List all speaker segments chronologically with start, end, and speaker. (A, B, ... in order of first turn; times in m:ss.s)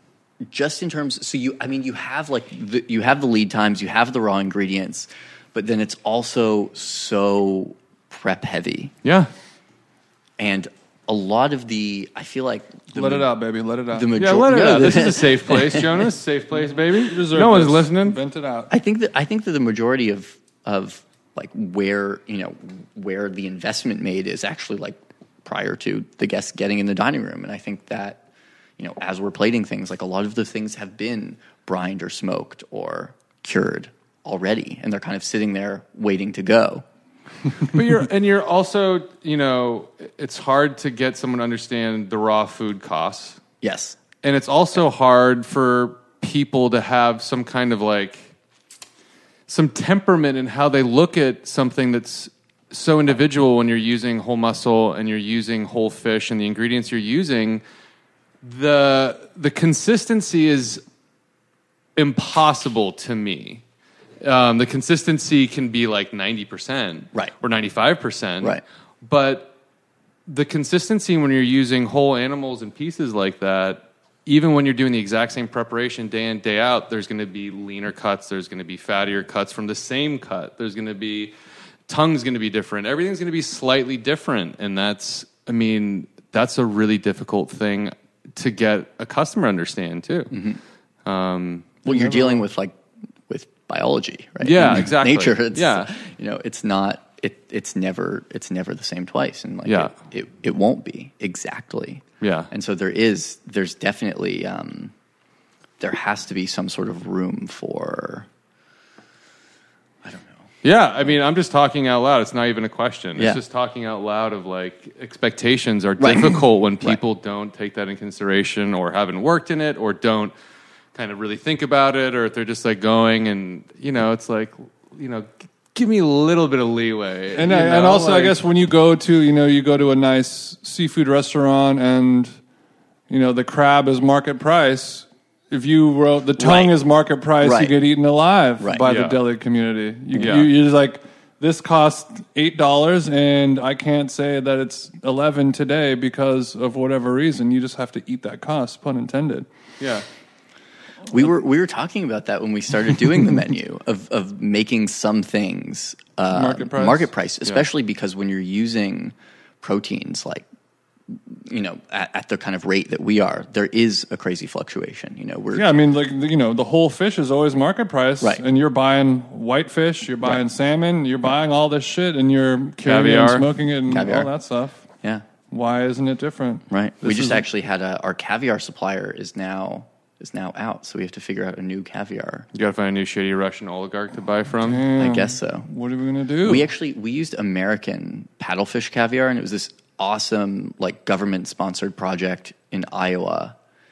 0:00.4-0:08.9 A
0:09.0-0:09.3 B
0:10.4-0:13.3 A
0:12.9-0:14.1 C
0:13.9-0:16.0 A
0:14.2-0:18.2 B
0:16.6-0:18.7 C
0:18.7-0:28.2 A
0:28.8-0:36.8 A
0:37.6-0:43.4 B
0:43.6-0:44.0 A
0:44.2-0:48.3 B
0:49.5-0:57.6 B
0:58.4-1:00.8 B
1:02.0-1:03.6 B
1:04.2-1:09.5 B
1:10.3-1:21.3 B
1:21.9-1:30.3 B
1:30.3-1:30.6 A
1:31.0-1:31.8 B
1:31.8-1:32.8 A
1:31.8-1:32.4 C
1:33.3-1:44.9 A
1:34.4-1:35.9 B
1:39.6-1:39.9 B
1:42.2-1:42.5 B
1:45.8-1:48.3 A
1:50.0-1:50.5 A
1:50.6-2:00.3 B
1:56.0-1:57.0 A
2:00.9-2:08.4 B
2:07.3-2:12.3 C
2:13.1-2:29.5 C
2:16.4-2:16.7 A
2:17.4-2:17.7 A
2:18.8-2:19.2 B
2:20.2-2:20.5 B
2:29.8-2:30.0 B
2:31.1-2:40.4 A
2:36.3-2:37.1 C
2:41.1-2:45.7 A
2:45.5-2:54.8 C
2:52.8-2:53.5 B
2:53.9-2:54.3 A
2:55.5-2:57.4 C
2:56.7-3:02.5 A
3:02.5-3:04.9 B
3:04.6-3:06.7 C
3:05.0-3:05.7 A
3:06.4-3:13.5 A